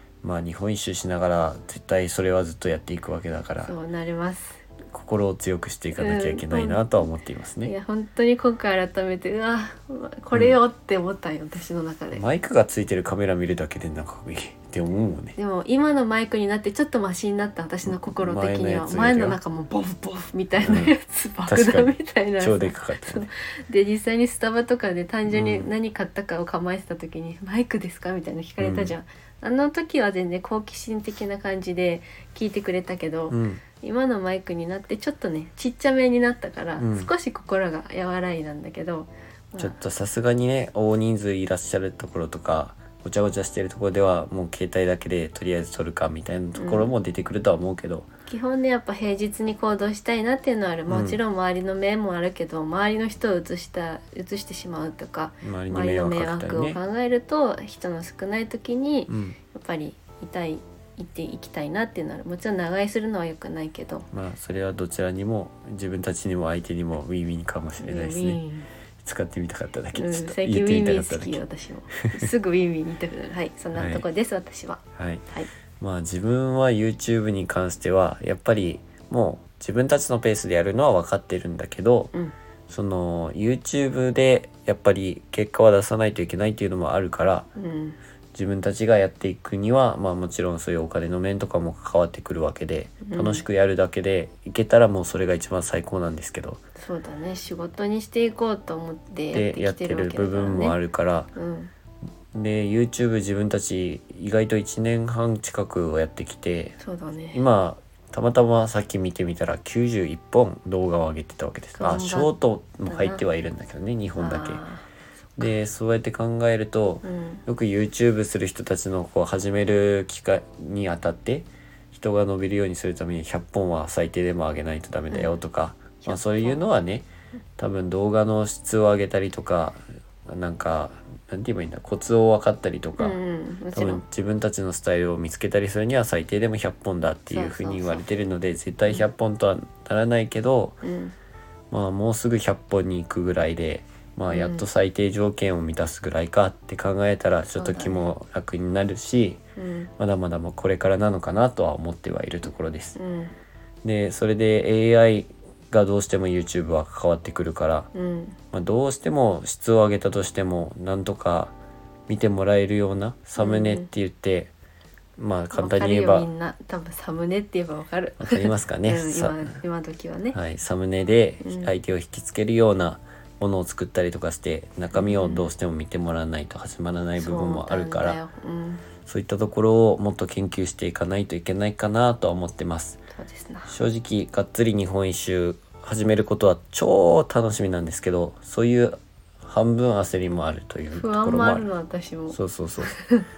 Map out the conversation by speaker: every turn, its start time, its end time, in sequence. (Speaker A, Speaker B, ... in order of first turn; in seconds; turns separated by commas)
Speaker A: 0.2-3.7, Speaker B: 3.7-4.6, Speaker A: 4.9-7.7, Speaker B: 6.0-7.0, Speaker B: 7.6-12.2, Speaker A: 12.1-15.4, Speaker B: 15.4-39.8, Speaker A: 17.9-19.4, Speaker A: 20.6-20.9, Speaker A: 21.5-23.3, Speaker A: 25.3-25.7, Speaker A: 28.6-28.9, Speaker A: 33.3-33.6, Speaker A: 36.8-37.1, Speaker A: 39.6-48.1, Speaker B: 46.5-46.9, Speaker B: 48.3-64.1, Speaker A: 50.9-51.2, Speaker A: 55.4-56.8, Speaker A: 59.1-59.4, Speaker A: 64.1-68.4, Speaker B: 67.8-68.7, Speaker A: 69.0-71.4, Speaker B: 69.9-75.5, Speaker A: 73.8-74.0, Speaker A: 75.0-75.2, Speaker A: 75.8-82.1, Speaker A: 82.7-87.5, Speaker B: 87.6-88.0, Speaker A: 88.3-96.6, Speaker B: 93.0-93.4, Speaker B: 96.8-100.8, Speaker A: 99.3-101.3, Speaker B: 101.3-101.7, Speaker A: 102.3-106.8, Speaker B: 106.8-107.4, Speaker A: 107.3-114.6, Speaker B: 111.8-112.3, Speaker B: 112.9-113.2, Speaker B: 114.2-114.9, Speaker A: 115.4-133.2, Speaker B: 117.0-117.4, Speaker B: 125.1-125.4, Speaker B: 126.0-126.6, Speaker B: 133.0-134.0, Speaker A: 133.7-140.8, Speaker B: 137.3-138.1, Speaker B: 140.8-141.2, Speaker A: 141.7-149.4, Speaker B: 144.3-144.7, Speaker B: 147.5-148.0, Speaker B: 149.6-149.9, Speaker A: 150.0-153.0, Speaker B: 153.0-153.3, Speaker A: 153.8-157.9, Speaker B: 157.9-158.4, Speaker A: 158.5-161.6, Speaker A: 162.1-164.5, Speaker B: 163.4-163.9, Speaker A: 165.2-166.3, Speaker B: 165.5-170.4, Speaker A: 168.2-169.6, Speaker A: 170.3-178.2, Speaker B: 171.4-171.7, Speaker B: 174.9-175.4, Speaker B: 177.2-178.8, Speaker A: 179.1-183.0, Speaker B: 183.1-183.7, Speaker A: 183.7-191.7, Speaker B: 190.9-193.3, Speaker A: 192.3-192.9